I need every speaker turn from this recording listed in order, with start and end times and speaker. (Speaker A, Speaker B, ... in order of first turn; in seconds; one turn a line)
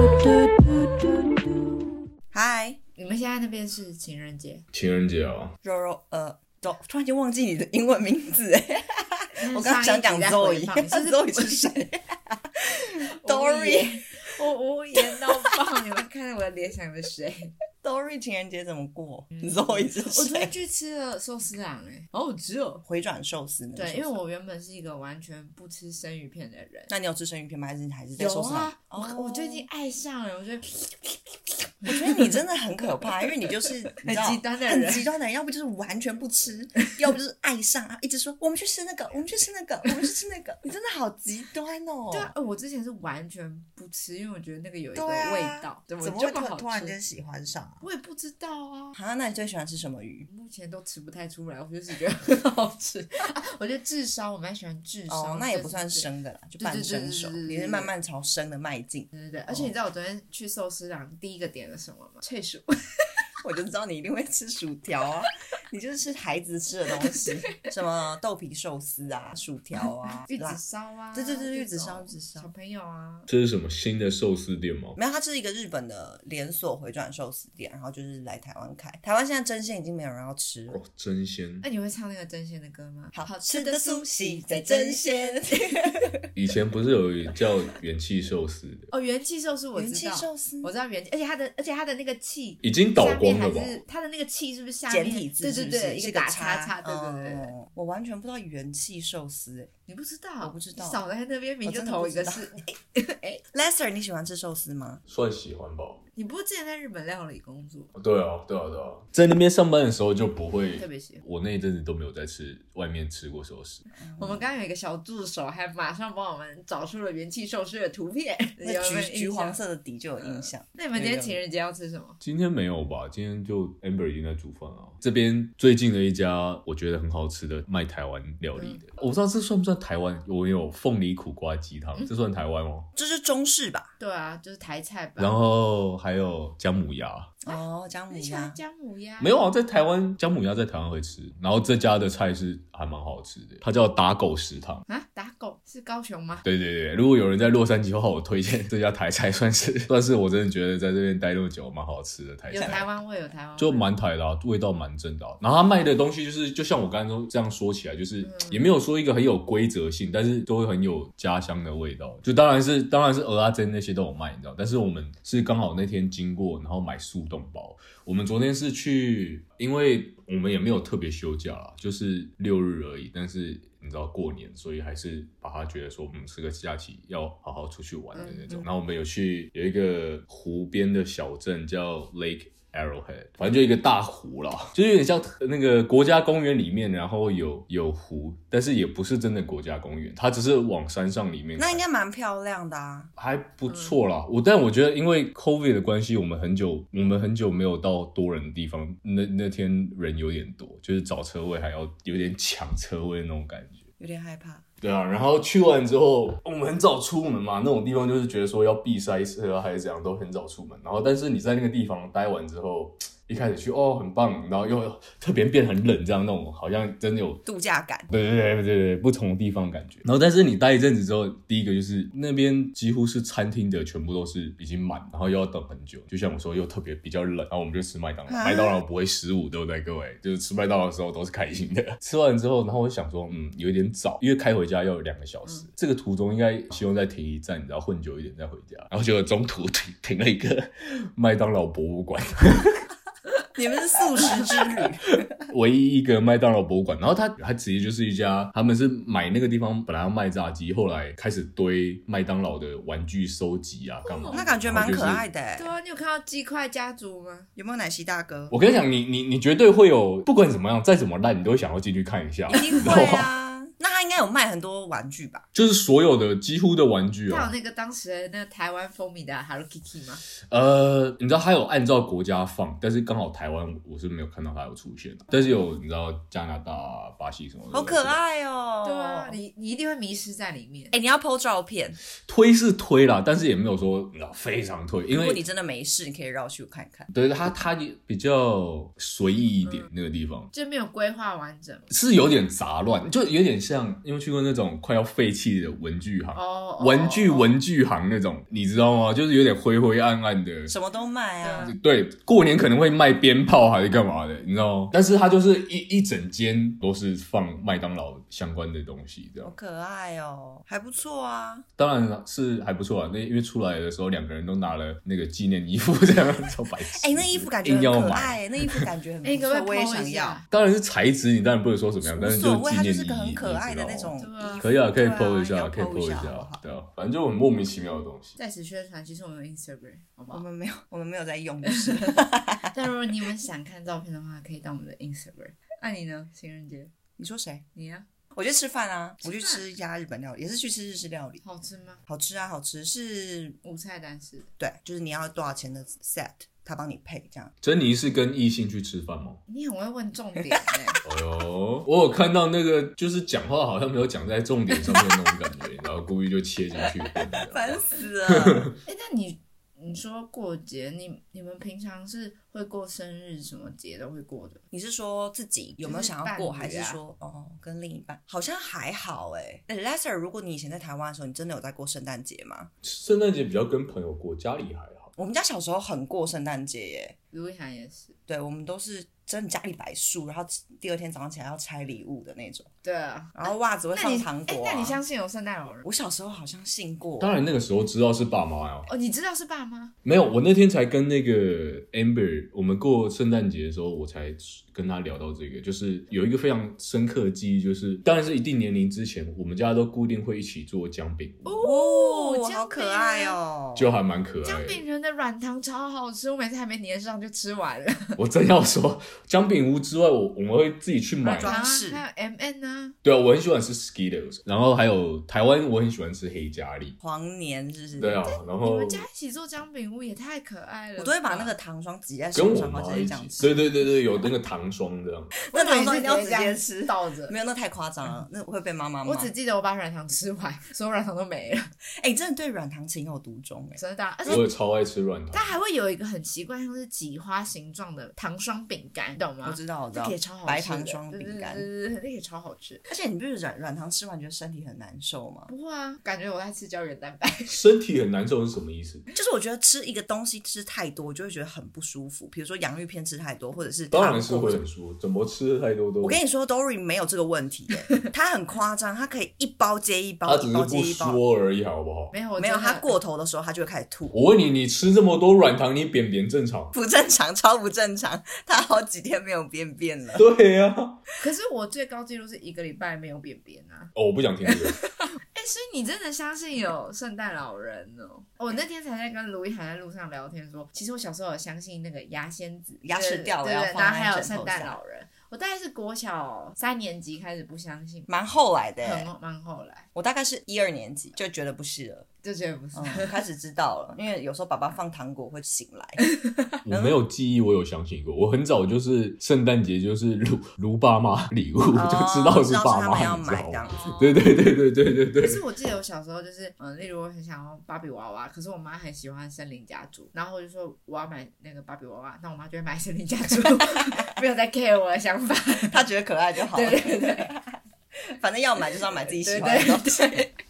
Speaker A: 2.3-2.8
Speaker B: 3.0-4.6
Speaker C: 4.7-5.5
Speaker A: 5.6-14.0
Speaker B: 9.4-11.8
Speaker B: 13.0-17.5
Speaker A: 14.9-15.5
Speaker A: 17.8-20.5
Speaker B: 19.3-22.8
Speaker A: 22.8-24.2
Speaker B: 23.7-26.9
Speaker A: 26.9-29.7
Speaker B: 28.2-31.2
Speaker B: 31.8-32.3
Speaker A: 31.9-42.3
Speaker B: 34.0-35.1
Speaker B: 42.1-47.0
Speaker A: 44.9-47.8
Speaker B: 47.8-49.0
Speaker A: 48.9-50.3
Speaker B: 50.3-56.1
Speaker A: 55.1-59.7
Speaker B: 56.6-57.9
Speaker B: 59.1-63.2
Speaker A: 63.4-70.6
Speaker B: 67.0-67.7
Speaker B: 70.0-73.3
Speaker A: 71.1-72.5
Speaker C: 73.3-75.0
Speaker A: 75.0-80.8
Speaker C: 80.7-81.6
Speaker B: 81.6-86.0
Speaker A: 83.1-86.3
Speaker C: 86.3-88.9
Speaker B: 88.9-97.5
Speaker A: 89.7-90.7
Speaker C: 92.6-93.8
Speaker A: 94.9-99.7
Speaker B: 99.9-103.4
Speaker A: 100.4-101.0
Speaker A: 101.6-102.7
Speaker A: 103.5-105.0
Speaker C: 105.1-106.0
Speaker B: 106.2-107.9
Speaker C: 108.0-113.8
Speaker B: 110.8-111.2
Speaker A: 114.0-114.5
Speaker B: 114.2-119.6
Speaker A: 118.6-121.4
Speaker B: 120.2-122.2
Speaker C: 122.2-132.9
Speaker B: 128.6-128.8
Speaker A: 132.9-133.9
Speaker B: 134.0-135.4
Speaker C: 135.2-137.3
Speaker A: 137.4-138.6
Speaker B: 137.5-139.3
Speaker C: 139.2-144.8
Speaker B: 144.9-146.4
Speaker C: 146.4-152.9
Speaker B: 152.5-153.9
Speaker C: 153.6-191.8
Speaker B: 158.2-158.7
Speaker B: 178.1-178.7
Speaker A: 191.6-193.1
Speaker C: 193.2-203.8
Speaker A: 204.0-204.6
Speaker C: 204.8-217.4
Speaker A: 217.4-218.1
Speaker C: 218.1-242.9
Speaker A: 228.3-228.8
Speaker A: 243.5-245.2
Speaker C: 244.2-244.6
Speaker C: 245.2-255.2
Speaker B: 254.0-254.4
Speaker A: 254.3-255.7
Speaker B: 255.6-257.5
Speaker A: 257.6-258.5
Speaker C: 258.5-263.3
Speaker A: 262.5-265.5
Speaker C: 265.5-267.5
Speaker B: 267.3-270.2
Speaker C: 270.5-278.2
Speaker A: 277.7-279.4
Speaker B: 278.8-280.9
Speaker A: 280.9-282.0
Speaker C: 282.2-285.4
Speaker A: 285.1-287.1
Speaker C: 287.1-290.5
Speaker B: 289.6-289.9
Speaker B: 290.5-291.9
Speaker C: 291.9-300.7
Speaker B: 296.3-297.6
Speaker A: 300.7-301.7
Speaker B: 301.4-301.7
Speaker C: 301.6-309.5
Speaker A: 309.4-311.6
Speaker C: 311.8-318.9
Speaker A: 317.0-320.4
Speaker B: 319.2-320.4
Speaker C: 320.5-328.3
Speaker A: 322.0-326.6
Speaker B: 324.2-324.7
Speaker B: 328.4-330.4
Speaker A: 330.3-332.9
Speaker B: 331.6-336.9
Speaker A: 337.2-337.6
Speaker B: 337.7-338.0
Speaker A: 338.3-341.4
Speaker B: 339.2-339.6
Speaker B: 341.4-342.0
Speaker A: 342.1-343.6
Speaker B: 343.6-344.5
Speaker A: 344.6-347.5
Speaker C: 347.6-349.4
Speaker B: 349.5-351.0
Speaker C: 351.0-358.7
Speaker A: 357.3-358.7
Speaker B: 358.9-364.6
Speaker A: 364.7-372.7
Speaker B: 365.8-367.0
Speaker C: 372.8-375.1
Speaker A: 375.1-377.1
Speaker B: 377.3-378.1
Speaker A: 378.3-382.7
Speaker B: 382.8-385.9
Speaker A: 383.3-385.0
Speaker A: 385.8-387.3
Speaker C: 387.2-388.9
Speaker B: 388.9-389.9
Speaker C: 390.0-401.6
Speaker B: 401.4-403.4
Speaker A: 401.6-403.9
Speaker C: 403.8-404.8
Speaker B: 404.4-408.2
Speaker C: 408.2-411.6
Speaker A: 411.2-412.0
Speaker B: 411.3-412.9
Speaker C: 413.0-416.9
Speaker A: 417.0-418.2
Speaker C: 417.9-419.0
Speaker B: 418.2-421.5
Speaker A: 421.0-423.6
Speaker C: 422.3-425.4
Speaker A: 425.4-429.3
Speaker B: 425.5-427.3
Speaker B: 429.0-431.7
Speaker A: 432.0-434.4
Speaker B: 433.8-434.4
Speaker C: 434.3-435.6
Speaker B: 435.3-442.8
Speaker A: 439.4-441.7
Speaker A: 442.9-445.5
Speaker B: 445.5-447.5
Speaker C: 447.5-449.1
Speaker A: 449.1-454.6
Speaker C: 453.9-456.2
Speaker A: 456.0-461.2
Speaker C: 460.3-462.1
Speaker B: 462.1-462.9
Speaker A: 462.4-464.2
Speaker C: 464.1-466.7
Speaker A: 466.7-470.3
Speaker C: 470.1-471.0
Speaker B: 471.2-473.9
Speaker C: 473.9-474.8
Speaker B: 475.1-488.1
Speaker A: 482.8-484.8
Speaker A: 488.1-489.1
Speaker B: 488.8-489.9
Speaker A: 489.9-492.1
Speaker B: 492.2-493.2
Speaker A: 492.7-496.0
Speaker B: 496.0-496.6
Speaker C: 496.6-505.4
Speaker A: 496.7-497.0
Speaker A: 501.7-504.2
Speaker B: 505.2-515.9
Speaker A: 513.8-514.1
Speaker A: 515.5-520.2
Speaker B: 516.5-517.3
Speaker B: 519.1-520.3